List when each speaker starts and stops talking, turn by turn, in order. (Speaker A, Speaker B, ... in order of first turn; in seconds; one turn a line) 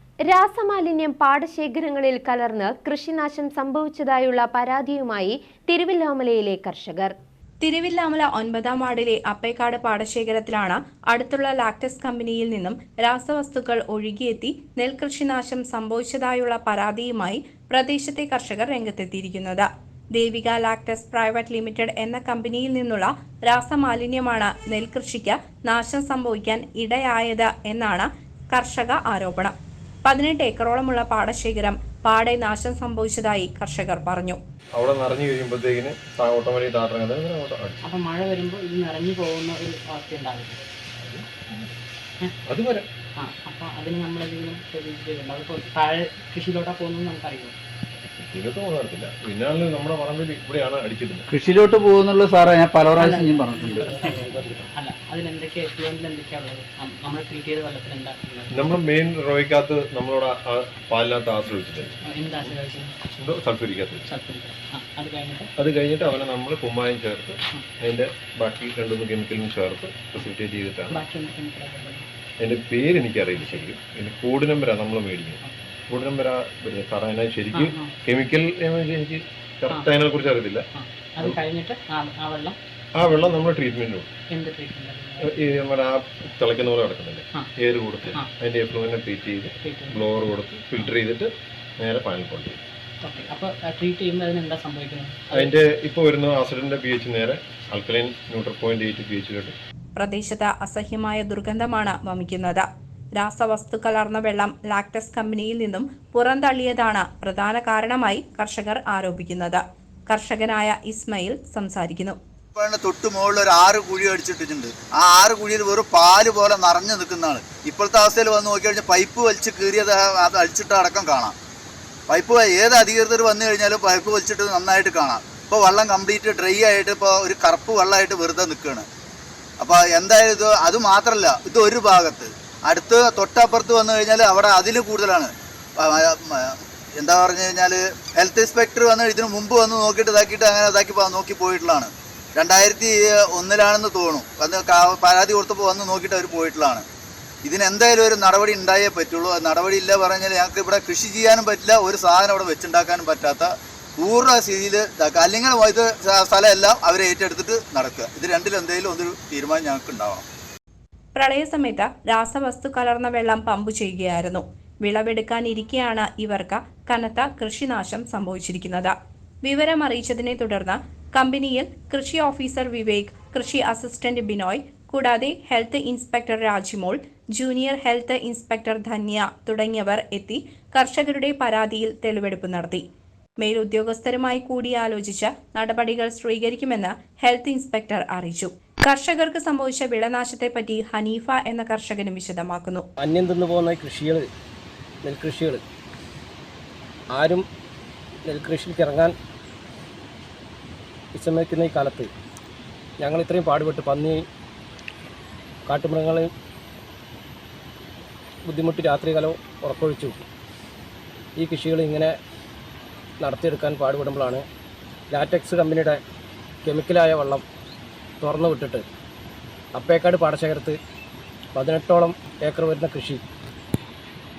Speaker A: 0.2-7.1
Speaker B: 7.6-34.4
Speaker C: 34.8-37.8
Speaker D: 37.8-40.7
Speaker C: 41.0-41.7
Speaker C: 42.5-42.9
Speaker D: 43.2-47.5
Speaker C: 48.1-51.3
Speaker E: 51.3-53.8
Speaker D: 53.0-58.5
Speaker C: 58.5-62.0
Speaker D: 62.1-63.0
Speaker C: 63.1-64.1
Speaker D: 64.1-65.5
Speaker C: 65.6-71.0
Speaker D: 70.9-72.1
Speaker C: 72.4-80.7
Speaker D: 77.5-77.9
Speaker D: 80.8-82.6
Speaker C: 83.0-84.1
Speaker D: 84.3-85.3
Speaker C: 85.2-91.3
Speaker D: 89.6-90.0
Speaker C: 91.8-92.6
Speaker D: 93.0-95.5
Speaker C: 95.3-99.5
Speaker B: 100.0-112.2
Speaker F: 112.5-121.3
Speaker F: 122.1-128.8
Speaker F: 129.6-146.8
Speaker F: 147.4-160.2
Speaker B: 161.1-182.8
Speaker B: 183.4-192.8
Speaker G: 193.0-194.2
Speaker G: 195.0-195.6
Speaker G: 197.1-197.4
Speaker G: 198.3-199.1
Speaker G: 201.1-202.1
Speaker G: 203.0-204.2
Speaker G: 205.7-206.3
Speaker G: 208.5-210.2
Speaker G: 211.4-212.1
Speaker G: 213.2-214.4
Speaker G: 215.1-216.0
Speaker G: 216.6-217.4
Speaker G: 218.2-218.8
Speaker G: 219.7-220.8
Speaker G: 221.5-223.2